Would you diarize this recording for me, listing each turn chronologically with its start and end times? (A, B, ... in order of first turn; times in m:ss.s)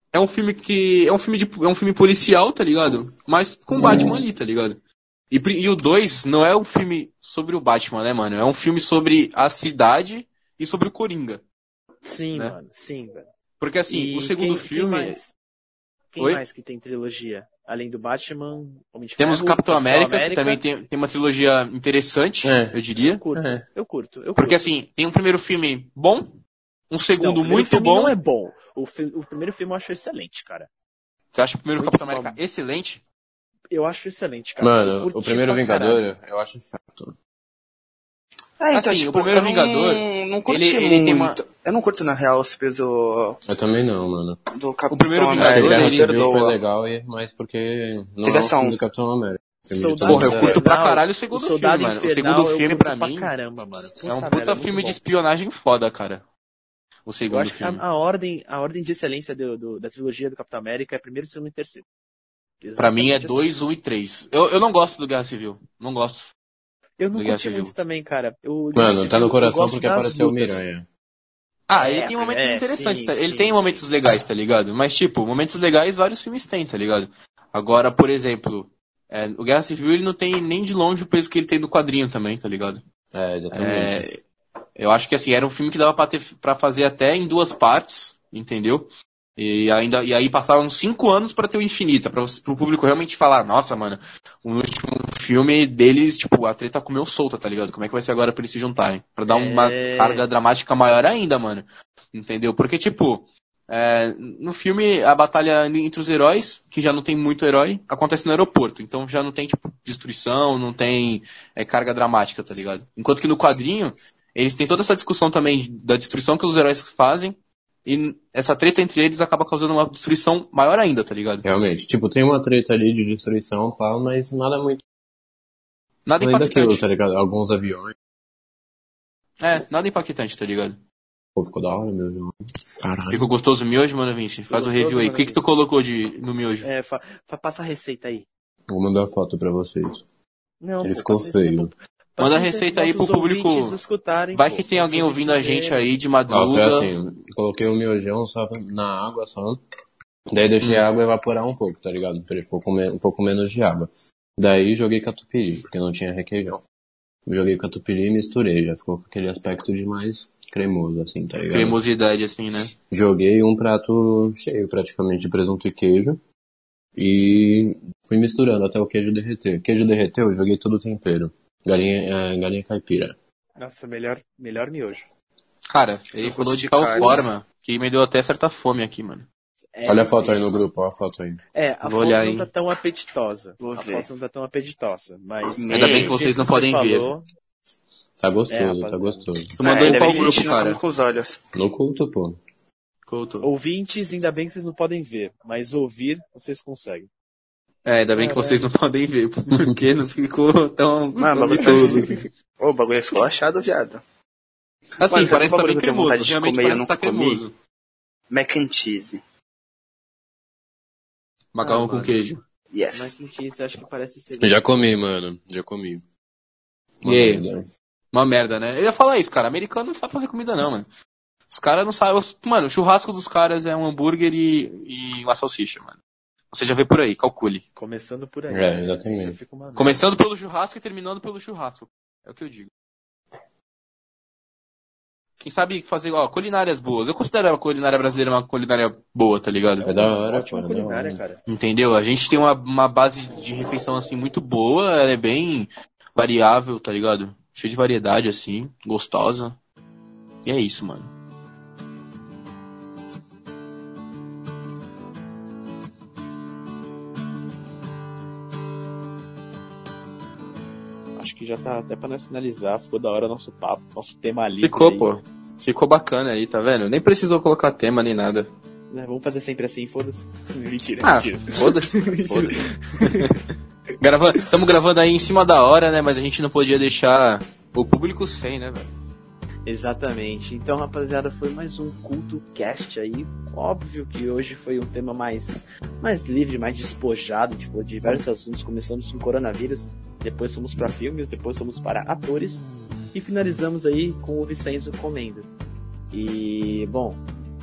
0:00.1-0:04.8 A
0:05.3-0:11.4 A
0:12.0-0:13.3 B
0:13.6-0:15.2 A
0:13.9-0:15.3 B
0:16.1-0:20.6 B
0:19.2-0:23.2 A
0:22.4-0:22.8 C
0:23.0-0:24.6 B
0:23.3-0:23.6 C
0:24.4-0:26.4 A
0:26.9-0:28.2 A
0:27.2-0:30.7 B
0:31.3-0:33.0 A
0:31.8-0:32.4 B
0:33.7-0:36.0 B
0:34.6-0:37.2 C
0:38.6-0:43.4 D
0:38.7-0:41.4 A
0:43.5-0:44.4 C
0:44.5-0:46.6 D
0:44.9-0:46.3 A
0:45.3-0:50.6 C
0:48.2-0:48.8 D
0:49.7-0:55.0 B
0:50.1-0:53.3 A
0:54.0-0:56.2 A
0:57.1-0:57.8 A
0:57.3-1:01.9 B
1:02.6-1:03.5 B
1:02.8-1:06.3 A
1:07.0-1:10.7 B
1:07.1-1:07.7 A
1:08.7-1:10.9 C
1:11.7-1:22.8 A
1:11.8-1:13.8 B
1:23.1-1:24.1 C
1:23.5-1:24.2 A
1:24.8-2:01.5 A
1:39.3-1:40.3 B
2:01.4-2:04.8 C
2:06.1-2:06.8 A
2:06.2-2:08.0 C
2:09.4-2:10.8 A
2:11.4-2:13.3 C
2:13.1-2:16.7 A
2:14.5-2:15.5 B
2:16.6-2:18.3 B
2:18.7-2:20.0 C
2:20.6-2:25.8 B
2:20.8-2:21.7 C
2:22.2-2:23.8 A
2:24.3-2:26.9 A
2:26.3-2:29.6 C
2:30.3-2:36.6 C
2:37.3-2:41.8 C
2:41.5-2:42.7 A
2:42.9-2:46.2 C
2:47.0-2:53.2 C
2:53.6-2:55.1 B
2:55.7-2:59.3 A
2:56.2-2:57.3 D
2:57.0-2:57.3 B
2:59.8-3:00.5 B
2:59.8-3:01.4 C
3:01.5-3:07.3 B
3:01.8-3:02.5 A
3:03.6-3:04.1 D
3:05.6-3:06.1 D
3:05.7-3:07.1 A
3:08.2-3:09.6 C
3:08.5-3:10.6 B
3:09.6-3:10.8 A
3:09.6-3:11.4 D
3:11.6-3:12.4 C
3:13.1-3:13.5 A
3:13.4-3:17.1 B
3:17.8-3:22.2 A
3:18.2-3:18.6 B
3:21.2-3:24.0 D
3:21.4-3:22.2 B
3:25.0-3:27.6 A
3:25.1-3:27.4 D
3:28.3-3:29.2 D
3:31.6-3:32.4 A
3:31.6-3:32.2 B
3:32.7-3:33.1 D
3:32.9-3:34.8 B
3:34.4-3:36.0 C
3:37.0-3:37.5 A
3:37.0-3:37.7 C
3:38.1-3:40.9 A
3:41.5-3:46.0 A
3:46.5-3:47.6 A
3:47.8-3:50.1 B
3:48.5-3:49.4 C
3:49.8-3:52.7 A
3:55.4-3:59.9 A
3:59.8-4:01.4 B
3:59.8-4:01.2 C
4:01.5-4:09.6 A
4:10.4-4:11.1 A
4:21.2-4:25.1 B
4:24.6-4:28.5 A
4:28.9-4:33.3 B
4:31.0-4:33.4 A
4:34.0-4:38.9 A
4:39.6-4:55.5 B
4:56.1-4:57.2 B